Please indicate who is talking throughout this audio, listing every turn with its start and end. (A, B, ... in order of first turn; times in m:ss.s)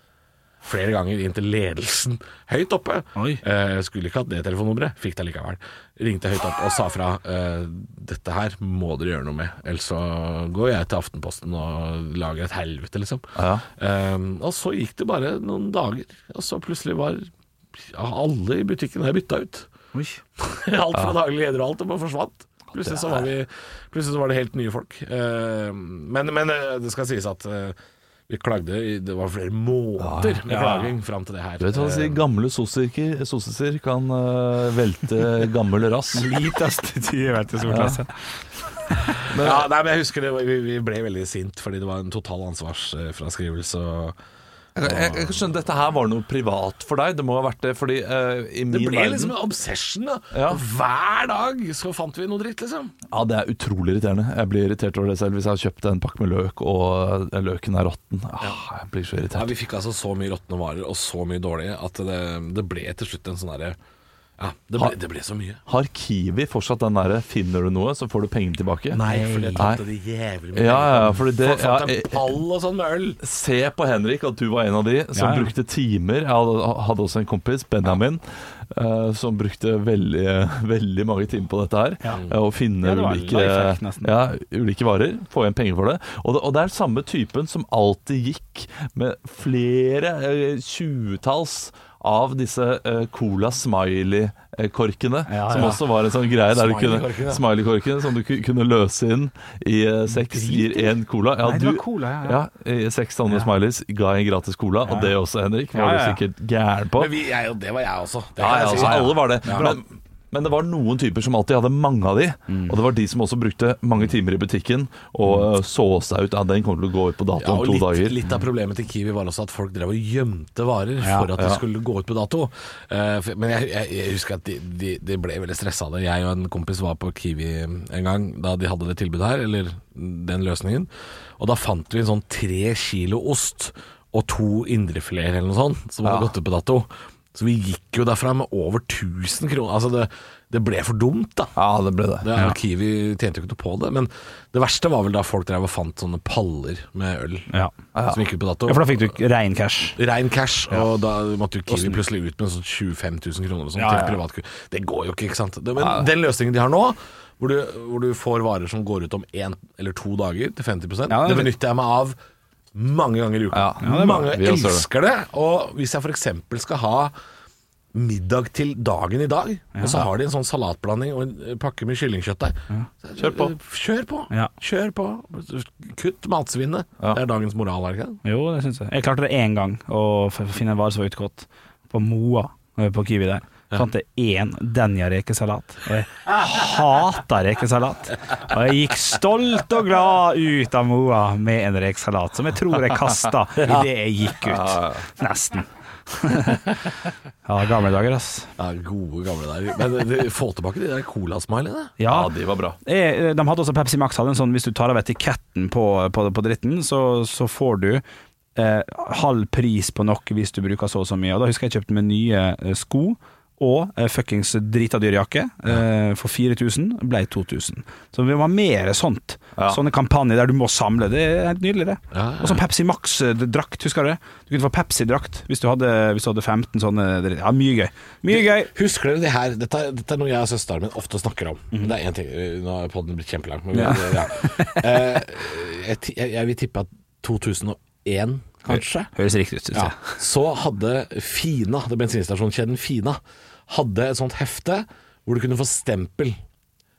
0:00.6-0:13.2 A
0:03.2-0:03.4 B
0:13.4-0:13.6 C
0:13.8-0:17.3 A
0:17.8-0:19.7 A
0:19.9-0:20.2 B
0:20.4-0:27.8 A
0:22.8-0:23.3 C
0:28.3-0:32.2 A
0:30.0-0:30.5 C
0:30.5-0:30.9 B
0:31.6-0:36.3 C
0:36.1-0:38.2 B
0:37.6-0:38.0 C
0:39.3-0:44.2 A
0:39.3-0:39.7 C
0:44.8-0:49.4 C
0:44.8-0:45.5 A
0:48.7-0:52.9 A
0:50.3-0:50.6 C
0:53.1-0:59.5 C
0:59.3-1:03.8 A
1:04.4-1:05.6 A
1:05.7-1:09.0 C
1:08.9-1:13.2 A
1:08.9-1:09.7 B
1:09.6-1:09.8 C
1:10.5-1:12.4 C
1:13.2-1:47.1 C
1:15.1-1:15.5 B
1:22.8-1:24.1 B
1:35.3-1:35.8 B
1:35.5-1:35.8 A
1:36.5-1:37.4 A
1:40.2-1:42.4 B
1:44.9-1:45.1 B
1:45.7-1:46.2 B
1:47.0-1:49.8 A
1:48.4-1:58.2 C
1:48.8-1:49.8 B
1:52.5-1:52.8 B
1:57.4-2:21.6 A
2:01.0-2:01.3 B
2:01.4-2:01.6 C
2:16.0-2:16.3 C
2:21.6-2:22.3 C
2:22.2-2:27.5 A
2:27.9-2:28.2 C
2:28.1-2:29.0 A
2:28.7-2:30.0 B
2:30.0-2:42.2 A
2:31.7-2:32.0 B
2:33.8-2:34.2 B
2:35.8-2:36.1 C
2:41.1-2:41.5 B
2:42.7-2:47.1 A
2:43.5-2:44.8 C
2:43.8-2:44.3 B
2:47.9-2:58.2 A
2:49.8-2:50.1 B
2:53.2-2:53.6 C
2:58.2-3:16.9 B
3:14.4-3:15.1 C
3:17.4-3:18.5 B
3:18.6-3:22.0 A
3:22.0-3:22.3 B
3:22.1-3:22.8 C
3:22.8-3:28.0 B
3:28.6-3:48.7 B
3:42.1-3:42.6 A
3:48.3-3:59.1 A
3:53.8-3:55.0 B
3:59.2-4:00.0 B
3:59.7-4:06.4 A